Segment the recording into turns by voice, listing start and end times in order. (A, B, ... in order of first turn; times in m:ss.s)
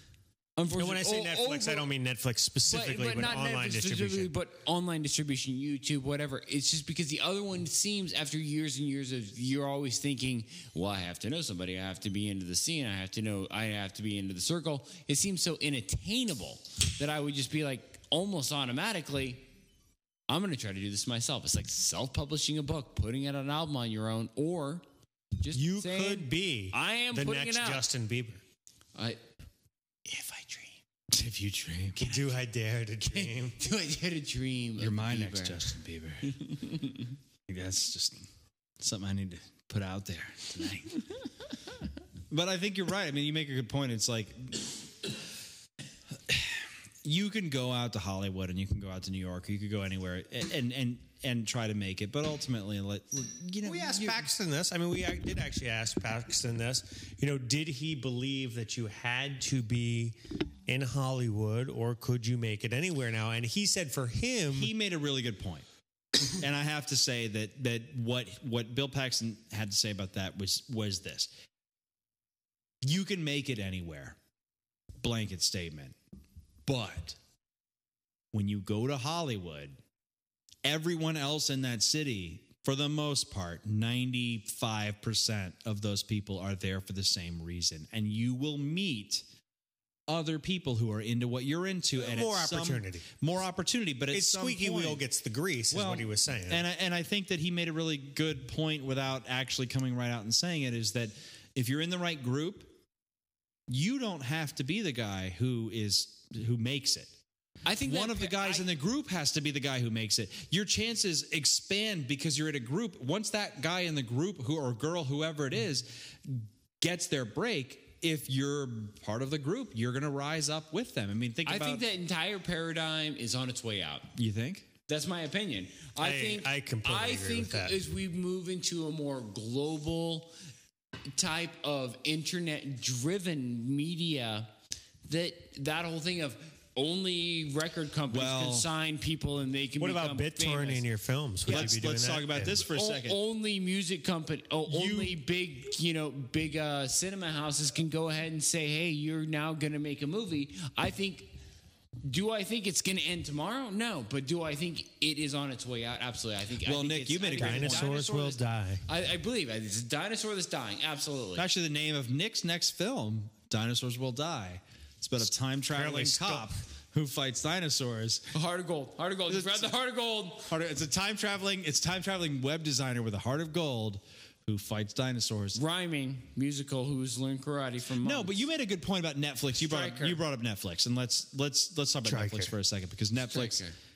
0:00.6-0:01.9 A
0:00.8-0:04.3 B
0:02.7-0:19.4 A
0:20.3-0:24.8 A
0:25.4-0:27.9 A
0:25.6-0:28.4 B
0:29.0-0:29.2 A
0:30.0-0:30.8 A
0:31.1-0:32.1 C
0:32.0-0:33.6 B
0:32.0-0:32.3 A
0:33.0-0:35.7 A
0:34.8-0:36.4 C
0:36.3-0:37.0 A
0:37.5-0:38.3 C
0:38.8-0:41.1 C
0:42.3-0:45.1 C
0:46.3-0:54.3 C
0:53.6-1:04.7 B
1:04.5-1:05.6 C
1:06.2-1:11.3 C
1:12.8-1:14.2 C
1:15.0-1:15.9 C
1:16.6-1:17.2 C
1:18.3-1:19.8 C
1:20.6-1:29.2 C
1:30.1-1:35.0 C
1:32.0-1:33.0 B
1:34.1-1:36.6 B
1:35.7-1:42.7 C
1:43.7-1:47.2 C
1:47.6-1:48.7 A
1:47.9-2:01.8 C
2:01.4-2:04.1 A
2:04.2-2:04.6 C
2:04.9-2:10.3 A
2:06.0-2:07.8 B
2:11.2-2:14.5 A
2:15.0-2:20.8 A
2:18.1-2:18.7 C
2:19.8-2:22.6 B
2:21.4-2:23.2 C
2:22.6-2:31.3 A
2:24.7-2:25.2 C
2:32.0-2:41.4 A
2:36.6-2:38.4 C
2:37.3-2:38.8 B
2:41.4-2:48.3 C
2:45.7-2:46.6 B
2:48.3-2:50.5 A
2:49.3-2:49.7 C
2:50.4-2:55.6 C
2:55.6-2:58.5 A
2:58.0-3:03.6 C
2:59.6-3:00.2 A
3:02.0-3:02.5 B
3:03.3-3:03.7 A